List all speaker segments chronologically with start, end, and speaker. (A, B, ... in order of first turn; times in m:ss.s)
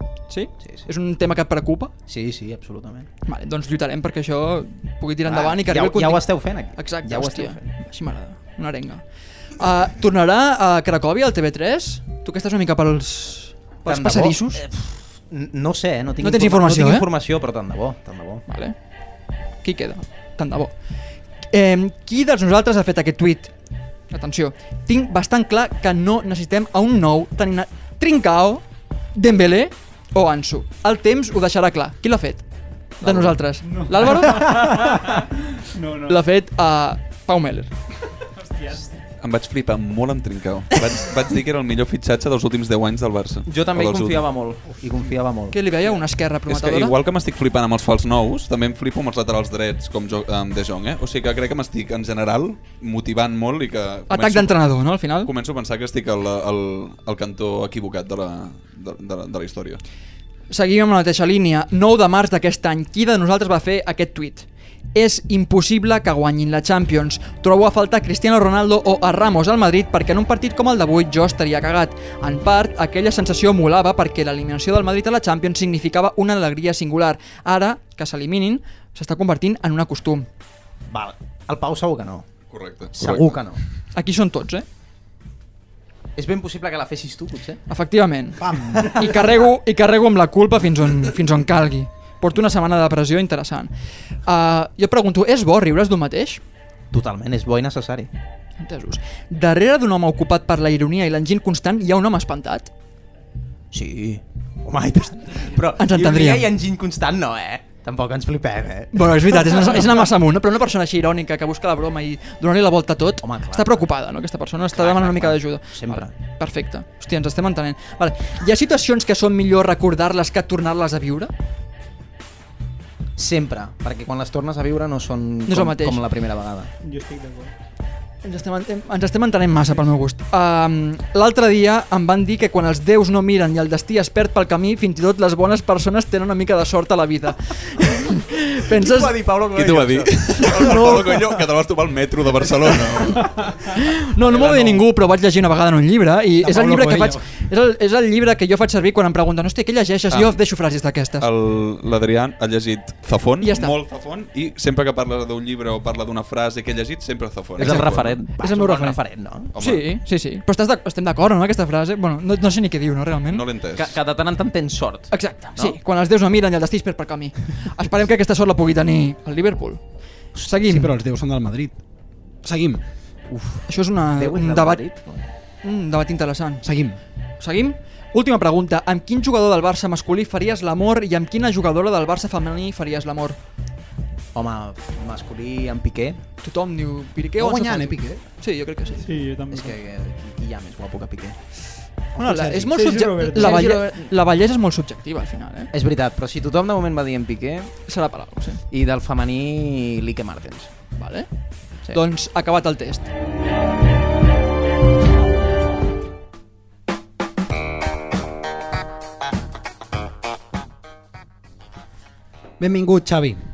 0:00.3-0:01.9 A
0:00.6-0:00.9 B
0:02.1-0:03.1 B
0:03.2-0:06.2 A
0:05.2-0:07.7 B
0:06.8-0:09.0 A
0:09.6-0:14.6 A
0:13.8-0:18.4 B
0:16.2-0:17.0 A
0:18.5-0:18.7 A
0:19.6-0:20.7 A
0:21.5-0:23.5 A
0:24.1-0:28.6 A
0:29.1-0:32.4 A
0:33.0-0:34.8 A
0:33.0-0:33.3 C
0:33.6-0:36.2 D
0:36.1-0:37.7 A
0:38.3-0:38.9 D
0:39.2-0:44.2 C
0:43.5-0:45.6 B
0:45.5-0:47.0 A
0:46.4-0:59.8 C
0:54.1-0:55.3 A
1:00.5-1:20.3 A
1:20.9-1:22.3 B
1:22.5-1:23.3 C
1:22.9-1:23.6 B
1:23.9-1:24.6 A
1:26.2-1:27.6 B
1:27.7-1:33.7 A
1:28.4-1:29.0 E
1:28.8-1:29.1 B
1:34.2-1:36.4 A
1:36.9-1:38.1 B
1:38.6-1:42.7 A
1:43.7-1:50.1 B
1:45.8-1:46.5 A
1:48.9-2:01.3 A
1:53.2-1:53.8 B
1:54.7-1:56.1 B
2:03.2-2:06.7 B
2:05.5-2:06.0 A
2:06.8-2:07.5 D
2:08.2-2:19.1 A
2:18.7-2:21.0 B
2:19.5-2:23.7 C
2:20.6-2:21.0 A
2:23.7-2:31.3 A
2:26.4-2:27.2 E
2:30.1-2:30.4 C
2:31.2-2:38.2 C
2:33.4-2:33.8 A
2:37.6-2:39.5 B
2:38.4-2:39.0 A
2:39.5-2:39.9 C
2:39.6-2:43.4 A
2:43.3-2:43.9 C
2:43.8-2:45.8 B
2:45.1-2:49.8 A
2:50.3-2:50.9 A
2:50.6-2:51.8 E
2:52.4-2:52.8 E
2:53.3-2:53.6 B
2:53.7-2:54.8 A
2:54.2-2:55.3 B
2:55.6-2:56.6 A
2:56.6-2:57.0 E
2:57.4-3:03.4 A
3:04.3-3:06.2 B
3:06.4-3:09.1 A
3:07.4-3:08.2 E
3:09.0-3:09.8 D
3:09.5-3:11.4 B
3:12.1-3:12.8 E
3:12.2-3:15.7 A
3:12.7-3:13.6 D
3:13.4-3:14.1 B
3:15.7-3:17.7 B
3:17.9-3:18.6 A
3:18.7-3:20.7 B
3:21.0-3:21.3 A
3:21.9-3:23.1 A
3:32.6-3:33.4 E